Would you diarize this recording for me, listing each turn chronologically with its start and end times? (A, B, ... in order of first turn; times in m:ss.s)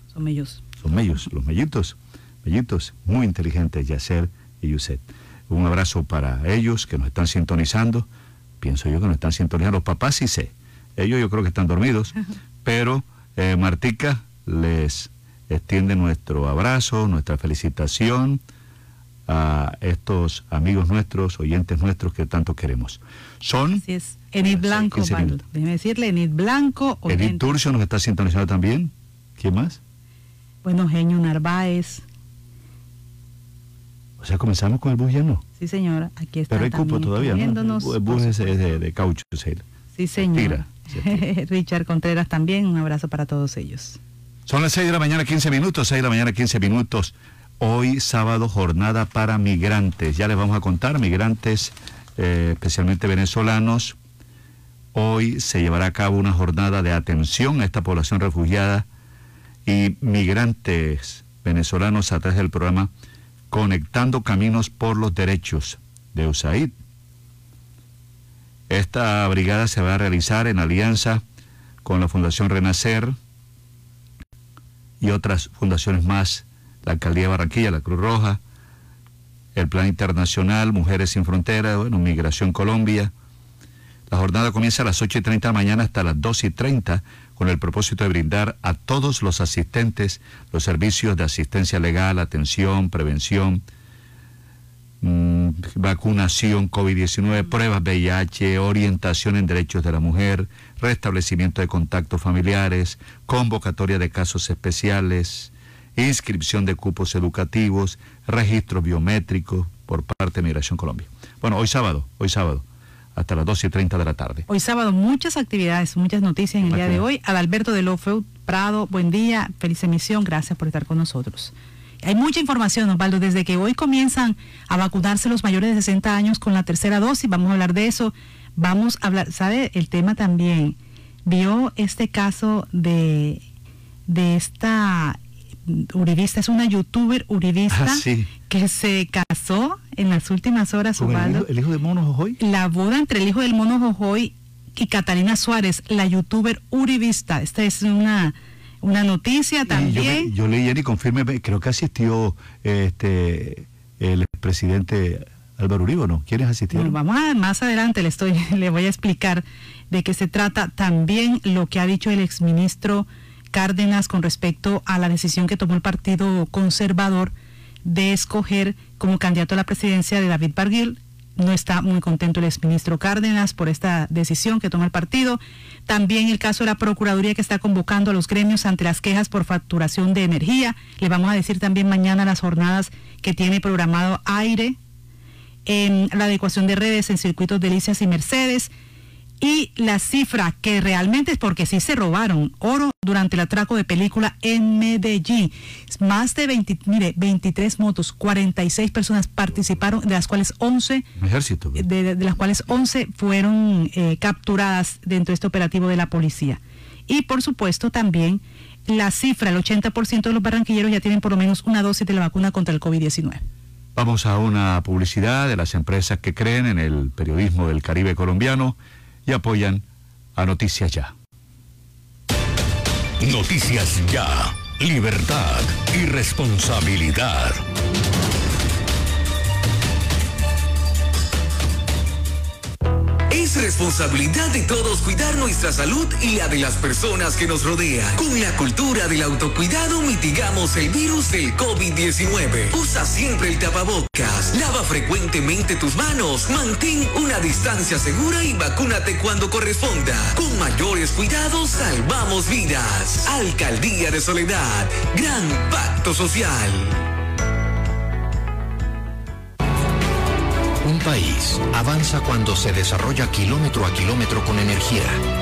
0:00.1-0:00.6 A
0:00.8-0:08.1 B
0:08.6-0:18.4 B
0:19.3-0:23.8 B
0:23.8-0:27.5 A
0:24.4-0:25.4 B
0:27.1-0:29.8 B
0:30.6-0:32.0 A
0:34.2-0:35.4 B
0:35.6-0:38.5 A
0:36.5-0:39.6 B
0:40.0-0:44.0 A
0:40.2-0:41.2 B
0:44.5-0:54.0 B
0:54.9-0:58.9 B
0:59.6-1:02.9 B
1:03.5-1:06.7 B
1:08.7-1:11.2 B
1:11.8-1:13.2 B
1:15.0-1:18.4 B
1:19.5-1:23.1 B
1:24.1-1:33.6 B
1:35.0-1:54.4 B
1:54.5-2:13.4 A
1:56.6-1:57.0 B
2:14.1-2:21.4 A
2:17.7-2:18.3 B
2:21.0-2:22.4 B
2:22.4-2:30.3 A
2:29.7-2:37.0 B
2:36.7-2:47.3 A
2:47.8-3:04.8 A
3:05.6-3:08.7 A
3:09.4-3:21.0 A
3:21.2-3:21.8 B
3:21.8-3:33.4 A
3:34.0-3:41.1 B
3:43.2-3:47.6 C
3:53.3-4:17.0 D
4:20.8-4:25.2 E